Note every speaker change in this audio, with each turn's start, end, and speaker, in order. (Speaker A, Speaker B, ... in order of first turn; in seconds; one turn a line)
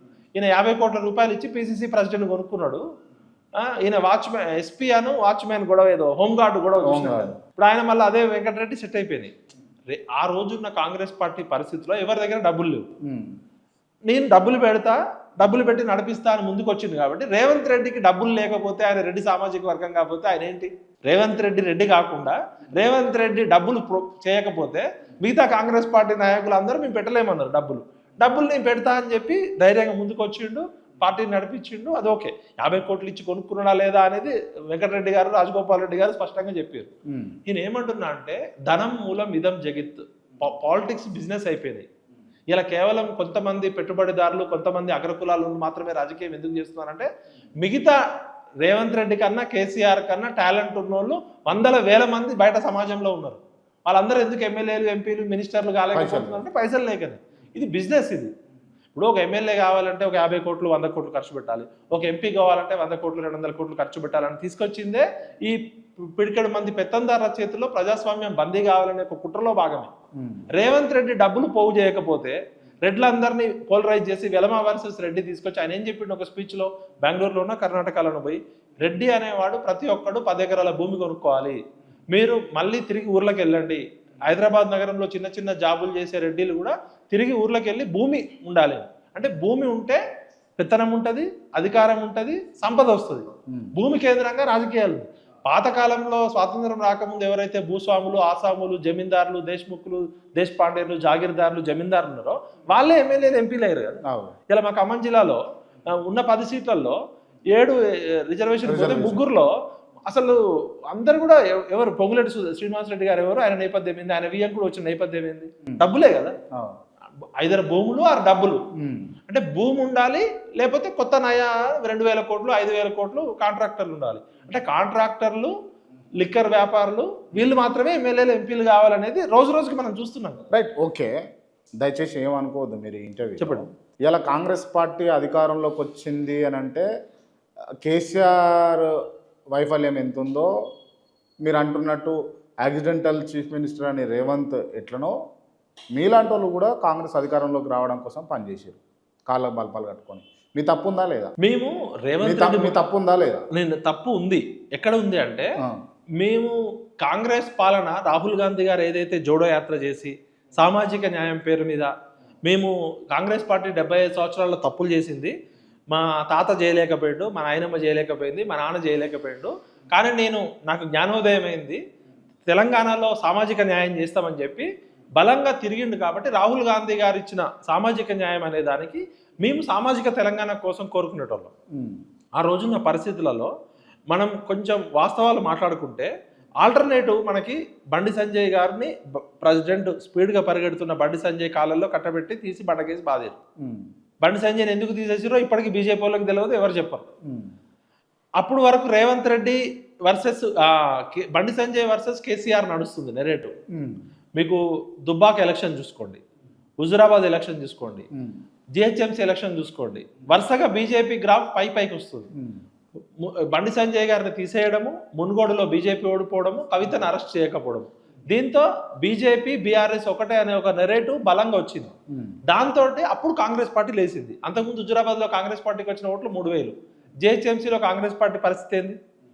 Speaker A: 0.4-2.8
Speaker A: 3.6-9.3
Speaker B: 6.8-7.3
Speaker A: 9.9-12.9
Speaker B: 13.0-13.3
Speaker A: 14.1-36.9
Speaker B: 37.1-37.4
Speaker A: 37.5-41.9
Speaker A: 42.5-47.1
Speaker A: 47.6-48.0
Speaker A: 48.6-58.3
Speaker B: 55.9-56.4
Speaker A: 58.9-69.9
Speaker B: 70.2-70.5
Speaker A: 70.5-81.6
Speaker A: 82.1-90.0
Speaker A: 90.6-105.4
Speaker B: 104.0-104.3
Speaker A: 106.0-107.0
Speaker A: 107.5-109.5
Speaker B: 108.6-109.2
Speaker A: 110.1-110.4
Speaker A: 110.9-116.3
Speaker A: 117.4-118.6
Speaker B: 118.8-119.1
Speaker A: 119.3-125.5
Speaker A: 126.2-130.4
Speaker B: 130.5-131.2
Speaker B: 131.8-136.9
Speaker A: 133.4-133.6
Speaker B: 137.8-140.5
Speaker B: 141.4-145.1
Speaker B: 145.9-151.3
Speaker A: 151.4-152.8
Speaker B: 152.2-153.4
Speaker A: 153.5-155.5
Speaker A: 156.2-161.9
Speaker A: 162.5-165.3
Speaker A: 165.9-171.8
Speaker A: 172.5-181.5
Speaker B: 181.7-182.0
Speaker A: 182.4-183.5
Speaker A: 184.1-186.1
Speaker A: 186.6-193.4
Speaker B: 193.6-193.9
Speaker A: 194.2-197.1
Speaker B: 197.2-197.5
Speaker A: 198.4-203.5
Speaker B: 203.7-204.0
Speaker A: 204.4-206.2
Speaker A: 206.8-208.1
Speaker B: 208.1-208.4
Speaker A: 208.8-212.3
Speaker B: 212.3-212.6
Speaker A: 213.2-221.9
Speaker B: 222.1-222.4
Speaker A: 222.5-229.0